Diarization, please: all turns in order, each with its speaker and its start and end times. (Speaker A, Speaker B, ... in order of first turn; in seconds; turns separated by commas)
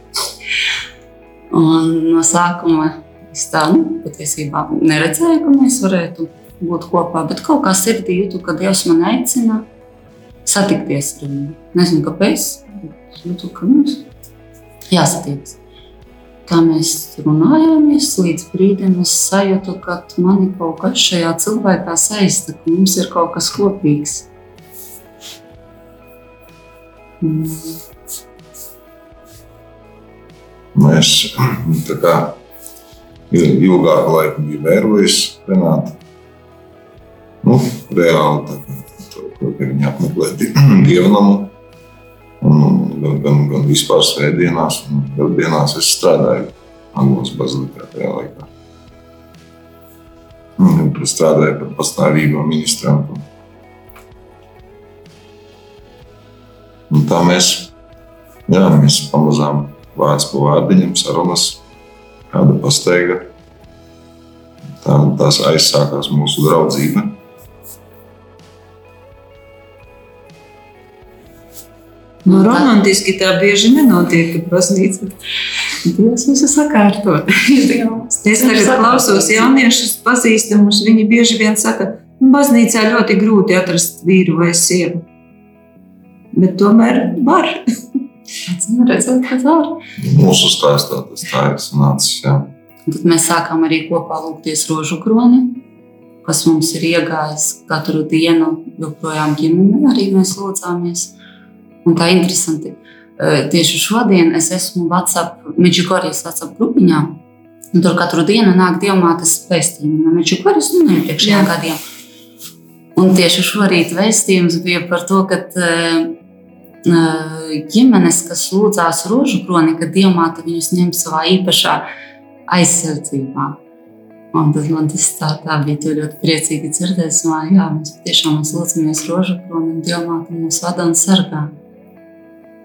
Speaker A: 1.5-9.7, Speaker A: 10.5-14.1, Speaker A: 14.9-15.6, Speaker A: 16.5-24.3, Speaker A: 27.2-27.8, Speaker B: 30.8-32.4, Speaker B: 33.3-36.0, Speaker B: 37.4-41.5, Speaker B: 42.4-48.5, Speaker B: 50.6-53.3, Speaker B: 56.9-57.7, Speaker B: 58.5-61.6, Speaker B: 62.3-63.3, Speaker B: 64.8-67.2, Speaker A: 72.2-72.7, Speaker C: 72.3-75.2, Speaker A: 75.8-79.5, Speaker C: 78.2-85.0, Speaker C: 86.3-87.6, Speaker A: 88.5-89.8, Speaker B: 90.0-92.5, Speaker A: 92.9-95.6, Speaker A: 96.2-101.2, Speaker A: 101.8-107.2, Speaker A: 107.7-111.8, Speaker C: 111.2-111.5, Speaker A: 113.0-116.2, Speaker A: 116.9-121.9, Speaker A: 122.5-123.6, Speaker A: 124.3-131.5